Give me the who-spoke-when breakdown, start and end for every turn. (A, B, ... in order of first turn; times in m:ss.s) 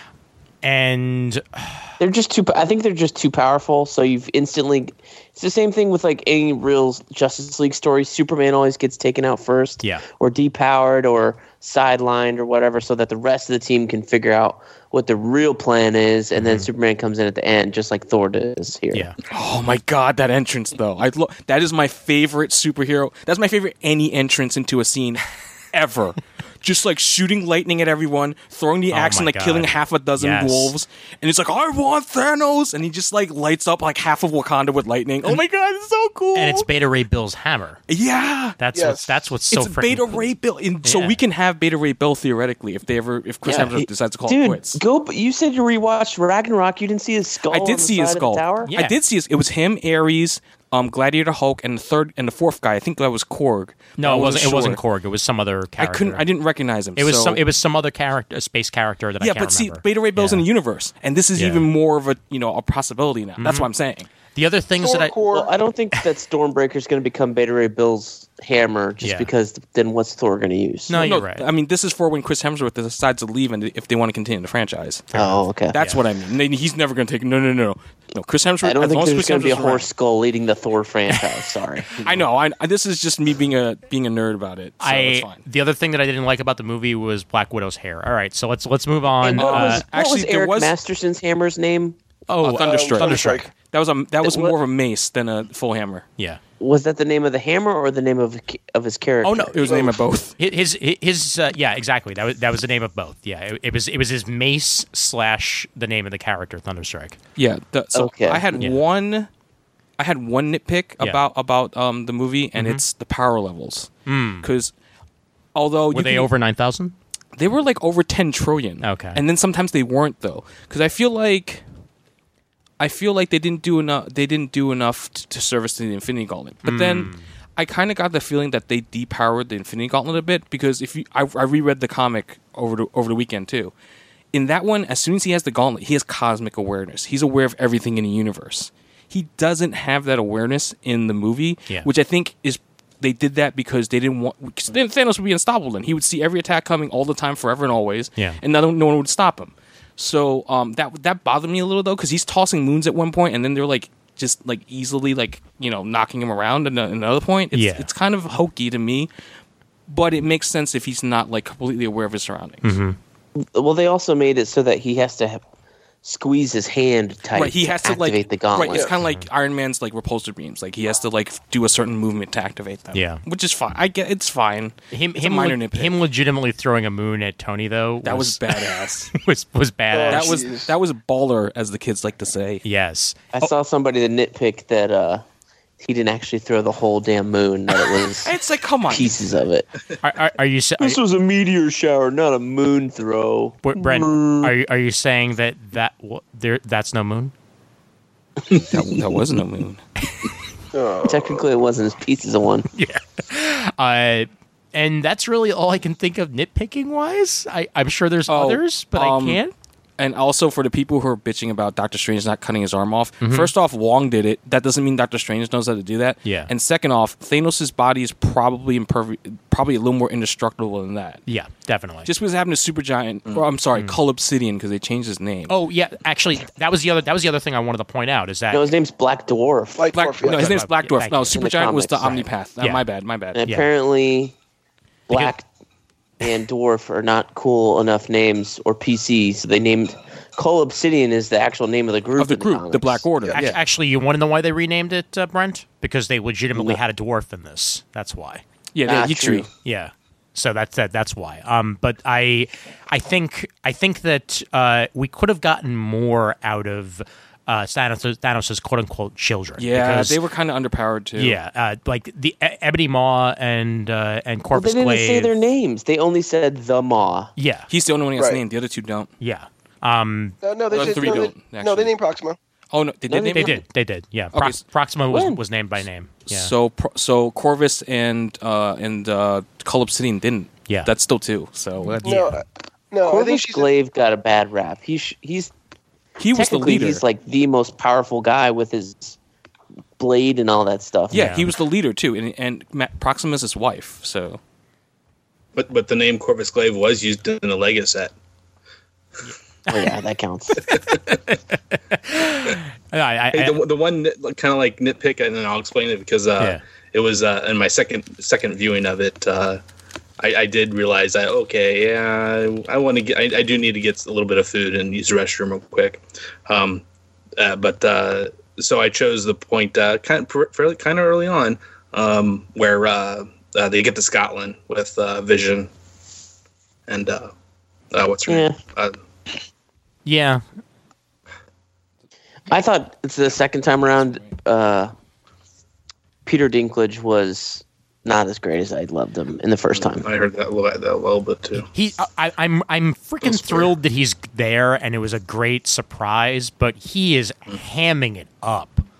0:00.6-0:01.9 A
0:02.0-0:19.1 B
0:16.4-0:16.7 A
0:19.3-0:36.7 C
0:28.9-0:30.8 A
0:36.4-0:37.8 A
0:37.9-0:38.6 C
0:38.6-0:40.3 A
0:38.7-0:39.3 D
0:39.5-0:44.8 C
0:40.8-0:41.2 A
0:43.4-0:48.7 B
0:47.5-0:54.8 C
0:48.7-0:49.0 A
0:54.0-0:56.2 A
0:55.8-0:57.4 C
0:57.0-1:00.5 A
0:59.2-1:04.1 C
1:01.4-1:01.7 A
1:03.4-1:03.7 A
1:04.4-1:05.2 A
1:04.8-1:05.5 D
1:05.3-1:11.0 B
1:09.0-1:09.3 A
1:10.9-1:11.5 A
1:11.0-1:15.1 C
1:15.1-1:16.0 A
1:15.2-1:15.8 B
1:15.7-1:19.9 C
1:18.6-1:21.9 B
1:22.0-1:25.4 C
1:24.8-1:29.8 A
1:29.2-1:32.0 B
1:29.4-1:30.8 C
1:32.3-1:33.5 A
1:32.4-1:36.1 C
1:32.5-1:33.5 D
1:34.2-1:34.6 B
1:36.6-1:39.6 B
1:39.2-1:39.8 A
1:39.5-1:40.4 C
1:39.6-1:40.0 D
1:40.4-1:47.2 A
1:47.4-1:49.3 C
1:47.9-1:48.4 B
1:48.5-1:48.8 A
1:50.0-1:54.7 C
1:52.6-1:52.8 A
1:54.1-1:54.5 A
1:55.6-1:56.3 C
1:55.9-1:56.9 A
1:57.4-2:01.6 C
1:58.8-1:59.2 A
2:02.8-2:13.7 C
2:06.6-2:07.3 A
2:14.3-2:39.1 C
2:37.5-2:37.9 A
2:39.9-2:42.7 C
2:42.6-2:43.0 A
2:43.4-2:45.4 B
2:46.0-2:48.9 B
2:47.3-2:56.0 C
2:49.0-2:49.3 A
2:52.9-2:53.2 A
2:54.9-3:00.4 A
2:58.0-2:59.2 C
2:59.9-3:00.7 D
3:00.1-3:02.6 C
3:02.6-3:03.3 A
3:03.3-3:05.2 B
3:05.8-3:08.3 B
3:08.2-3:09.2 C
3:08.9-3:09.7 B
3:10.0-3:11.0 A
3:10.8-3:14.5 B
3:13.6-3:17.3 A
3:18.6-3:19.8 C
3:20.7-3:21.4 D
3:21.0-3:22.7 B
3:22.7-3:29.5 A
3:28.3-3:29.4 C
3:30.0-3:41.2 C
3:33.2-3:33.5 A
3:36.2-3:36.5 A
3:41.3-3:42.1 A
3:42.0-3:45.6 C
3:43.7-3:44.0 A
3:45.5-3:48.6 A
3:48.5-3:49.9 B
3:49.8-3:50.6 D
3:49.9-3:53.4 C
3:50.2-3:51.4 A
3:51.3-3:52.2 B
3:52.0-3:52.8 A
3:53.4-3:54.4 B
3:55.1-3:55.5 B
3:56.2-4:03.0 B
4:02.2-4:03.6 C
4:03.3-4:08.4 A
4:08.7-4:09.5 C
4:08.9-4:09.5 B
4:09.6-4:20.2 A
4:19.6-4:21.4 C
4:21.2-4:25.3 A
4:24.5-4:27.3 B
4:27.4-4:27.7 A
4:27.7-4:29.1 C
4:28.2-4:28.4 D
4:29.2-4:30.9 A
4:30.4-4:32.4 D
4:30.7-4:31.9 C
4:32.7-4:33.6 C
4:33.1-4:33.6 B
4:33.4-4:36.5 A
4:34.3-4:34.6 C
4:35.1-4:35.4 B
4:36.3-4:42.1 C
4:41.8-4:42.4 A
4:42.0-4:43.7 D
4:43.0-4:45.5 B
4:46.2-4:47.0 C
4:46.3-4:49.2 B
4:50.0-4:51.3 B
4:51.1-4:54.4 C
4:51.1-4:51.5 A
4:55.6-4:58.1 E
4:59.7-5:00.7 B
5:00.7-5:01.2 E
5:00.7-5:03.6 A
5:03.3-5:09.6 E
5:10.2-5:16.8 E
5:17.4-5:25.7 E
5:26.9-5:27.3 E
5:27.9-5:29.0 E
5:28.3-5:28.6 B
5:30.0-5:30.4 A
5:32.5-5:34.9 B
5:36.3-5:40.1 B
5:39.8-5:41.7 E
5:41.7-5:48.8 A
5:43.2-5:43.7 E